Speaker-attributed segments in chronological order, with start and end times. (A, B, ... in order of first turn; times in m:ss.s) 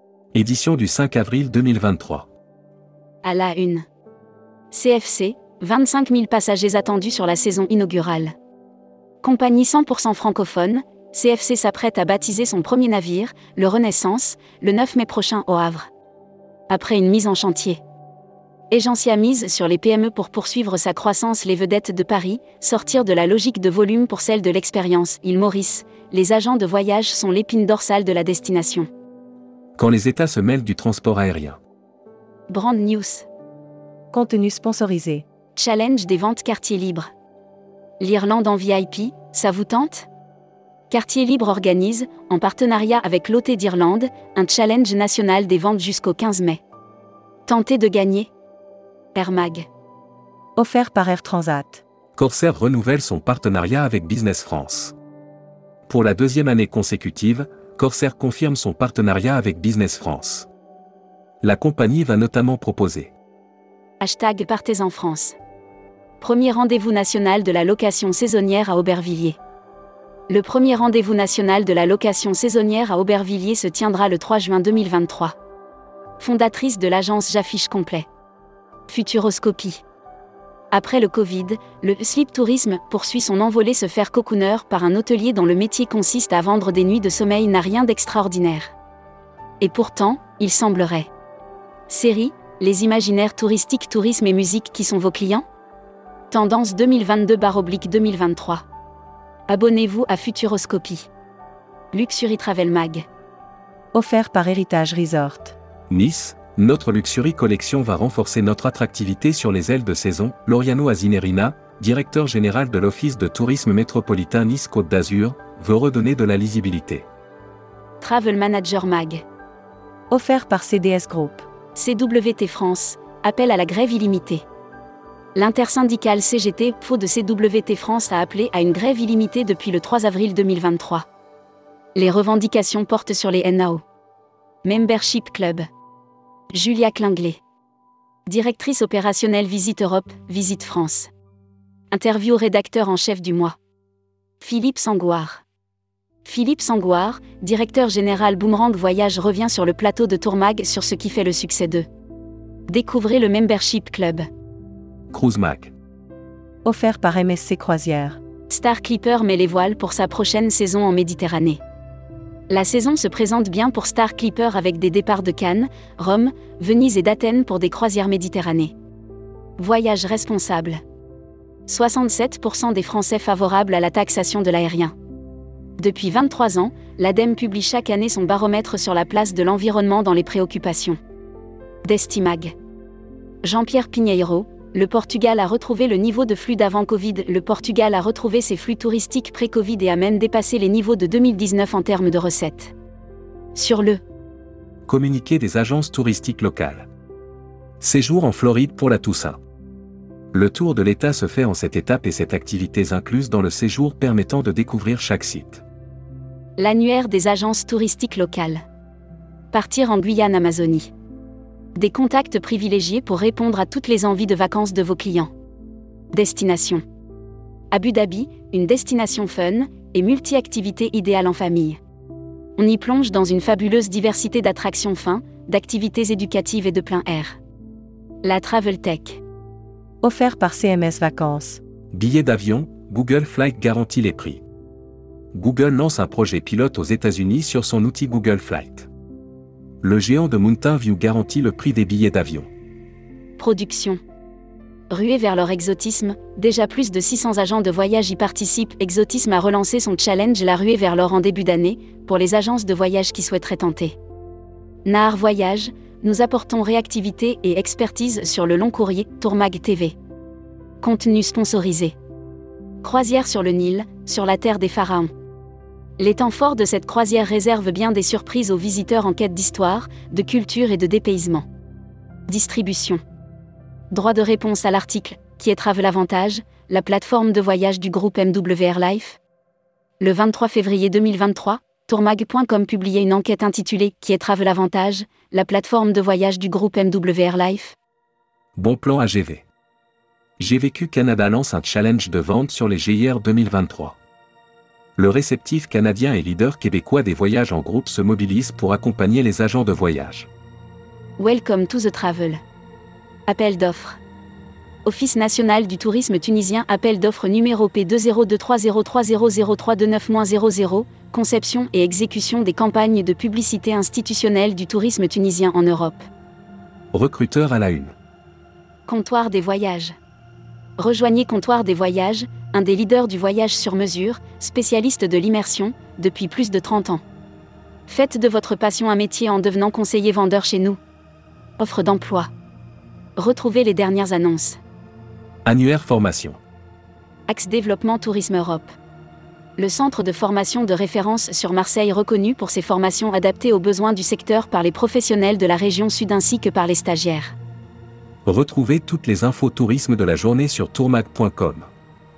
0:00.3-0:02.3 A
0:03.2-0:03.8 B
0:04.7-0:08.3 B
0:09.2-0:15.9 B
0:16.7-0:17.8 B
0:18.7-0:28.9 B
0:29.8-0:31.6 A
0:32.5-0:33.3 B
0:34.1-0:35.2 C
0:35.6-0:37.1 B
0:38.0-0:40.1 B
0:40.9-0:46.6 B
0:47.5-0:48.3 B
0:49.1-0:49.6 B
0:50.6-0:51.8 C
0:52.2-0:54.9 A
0:55.9-1:00.5 A
1:01.4-1:03.1 A
1:04.0-1:05.4 B
1:06.2-1:09.4 B
1:10.3-1:15.3 B
1:16.2-1:18.1 B
1:18.9-1:19.8 B
1:20.7-1:28.7 B
1:29.6-1:31.1 B
1:31.9-1:35.4 B
1:36.3-1:38.6 B
1:39.5-1:41.1 B
1:41.9-1:43.0 B
1:43.9-1:45.6 C
1:45.9-1:57.0 A
1:58.0-1:59.2 B
2:00.1-2:01.4 C
2:01.7-2:04.4 B
2:05.3-2:11.0 B
2:11.9-2:13.8 B
2:14.6-2:15.6 B
2:16.5-2:17.4 B
2:18.3-2:21.1 B
2:21.9-2:23.6 B
2:24.4-2:25.4 B
2:26.2-2:31.8 B
2:32.7-2:34.2 B
2:35.1-2:35.7 A
2:36.6-2:38.2 C
2:38.5-2:41.6 B
2:42.5-2:48.7 B
2:49.6-2:50.8 B
2:51.7-2:54.9 B
2:55.8-3:01.0 B
3:01.8-3:02.5 B
3:03.4-3:12.7 B
3:13.5-3:14.0 B
3:14.9-3:16.9 A
3:17.8-3:19.4 A
3:20.3-3:25.6 A
3:26.6-3:28.6 B
3:29.5-3:30.9 B
3:31.7-3:35.3 B
3:36.1-3:36.8 B
3:37.7-3:41.8 B
3:42.6-3:47.4 B
3:48.2-3:49.2 B
3:50.0-3:51.6 C
3:51.9-3:54.4 A
3:55.3-3:58.9 A
3:59.8-4:02.5 A
4:03.4-4:04.0 B
4:04.9-4:14.0 B
4:14.8-4:20.0 B
4:20.8-4:21.9 B
4:22.8-4:25.1 B
4:26.0-4:31.4 B
4:32.3-4:33.0 B
4:33.9-4:39.2 B
4:40.0-4:47.8 B
4:48.6-4:49.4 A
4:50.4-4:54.0 A
4:55.0-5:00.3 A
5:01.2-5:02.4 B
5:03.3-5:04.0 B
5:04.8-5:16.0 B
5:16.9-5:17.9 A
5:18.9-5:19.9 B
5:20.8-5:27.0 B
5:27.9-5:30.8 B
5:31.6-5:32.3 B
5:33.2-5:34.6 B
5:35.4-5:36.4 A
5:37.3-5:38.7 B
5:39.6-5:47.3 B
5:48.2-5:51.7 A